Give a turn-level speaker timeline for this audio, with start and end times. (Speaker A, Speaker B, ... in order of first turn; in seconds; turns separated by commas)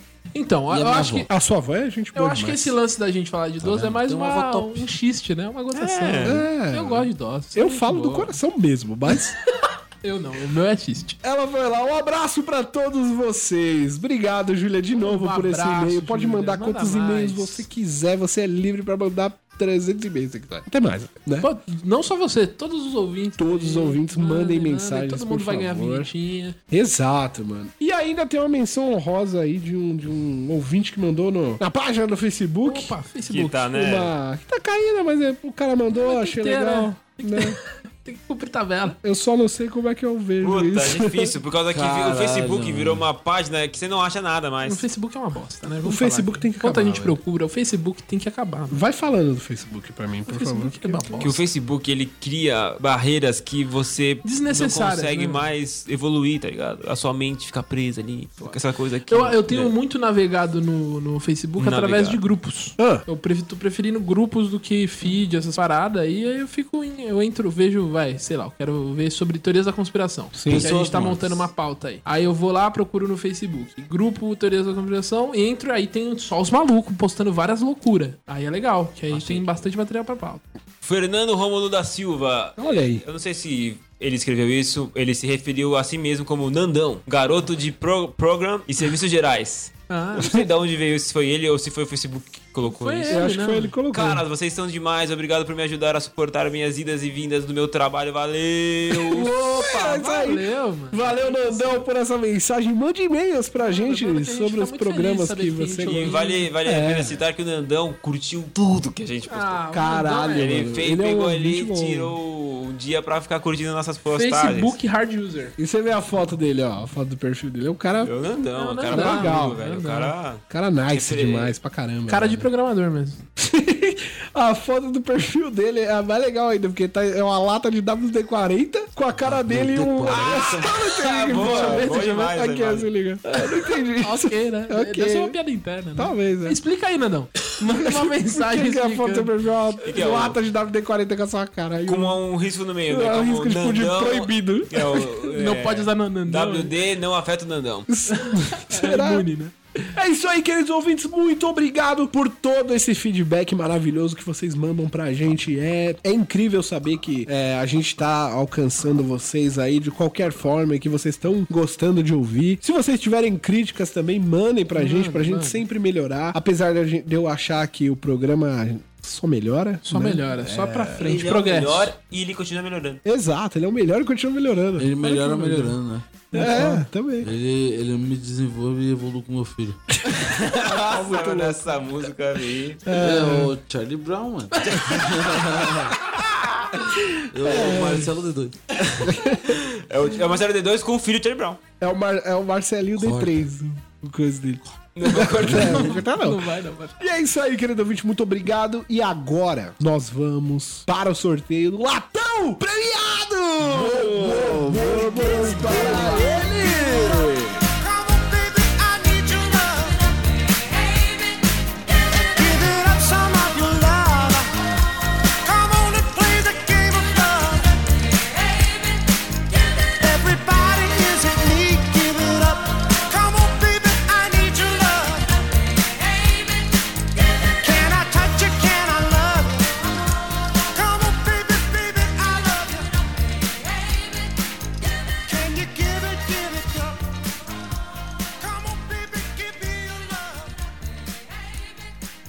Speaker A: 0.3-1.3, Speaker B: 0.7-1.3, Speaker C: 1.3-2.7, Speaker A: 2.1-8.4, Speaker B: 3.6-4.9, Speaker D: 5.7-6.4, Speaker C: 6.2-9.4, Speaker A: 9.6-11.2, Speaker C: 11.2-21.5, Speaker A: 15.0-17.7, Speaker A: 21.4-26.6, Speaker C: 23.4-26.1, Speaker C: 26.7-33.0, Speaker A: 32.6-33.8, Speaker D: 33.3-34.1, Speaker C: 33.7-37.6, Speaker A: 35.9-39.0, Speaker C: 39.0-41.3, Speaker D: 40.4-44.9, Speaker B: 41.7-43.1, Speaker A: 44.7-48.8, Speaker C: 45.8-47.2, Speaker C: 48.7-51.3, Speaker A: 50.3-51.4, Speaker D: 51.2-59.7, Speaker A: 54.2-55.4, Speaker A: 59.1-80.5, Speaker D: 61.6-62.2, Speaker C: 62.8-63.0, Speaker C: 70.3-70.7, Speaker B: 70.5-71.5, Speaker D: 79.1-79.6, Speaker D: 80.8-93.2, Speaker C: 82.6-83.0, Speaker A: 89.9-90.3, Speaker A: 92.8-93.7, Speaker C: 93.1-94.2, Speaker D: 93.9-99.3, Speaker A: 99.0-101.9, Speaker C: 99.5-107.2, Speaker A: 103.7-106.5, Speaker D: 105.8-109.6, Speaker A: 109.3-110.6, Speaker C: 109.7-112.2, Speaker D: 110.4-114.8, Speaker A: 114.1-115.5, Speaker C: 115.6-118.1, Speaker D: 118.0-121.5, Speaker A: 118.5-120.1, Speaker C: 118.9-119.6, Speaker C: 120.5-122.5, Speaker A: 122.1-123.2, Speaker C: 123.4-135.4, Speaker B: 129.2-130.8, Speaker D: 130.4-132.9, Speaker A: 131.2-132.3, Speaker A: 133.3-139.3, Speaker C: 136.0-136.6, Speaker C: 137.7-142.2, Speaker D: 139.8-140.4, Speaker D: 141.8-147.9, Speaker C: 142.9-145.3, Speaker A: 145.3-146.7, Speaker C: 147.9-149.3, Speaker A: 148.1-149.9, Speaker C: 149.9-171.1, Speaker A: 164.8-165.7, Speaker A: 169.8-171.9, Speaker D: 171.0-173.0, Speaker C: 173.1-175.8, Speaker B: 174.8-176.7, Speaker A: 176.3-176.9, Speaker C: 176.3-177.3, Speaker B: 177.2-179.8, Speaker C: 180.1-182.1, Speaker D: 180.2-182.8, Speaker C: 182.8-183.5, Speaker B: 182.9-185.9, Speaker D: 184.7-185.8, Speaker B: 187.3-188.8, Speaker C: 187.4-188.1, Speaker D: 188.8-191.6, Speaker C: 189.1-189.6, Speaker C: 191.8-196.5, Speaker B: 193.0-193.5, Speaker D: 195.0-196.0, Speaker A: 195.4-197.0, Speaker C: 197.0-207.6, Speaker A: 204.2-206.4, Speaker E: 205.1-210.0, Speaker D: 205.2-206.1, Speaker E: 212.3-214.5, Speaker E: 215.4-217.7, Speaker E: 220.0-225.3, Speaker E: 227.6-229.8, Speaker E: 230.7-232.9, Speaker E: 235.3-236.9, Speaker E: 238.4-240.5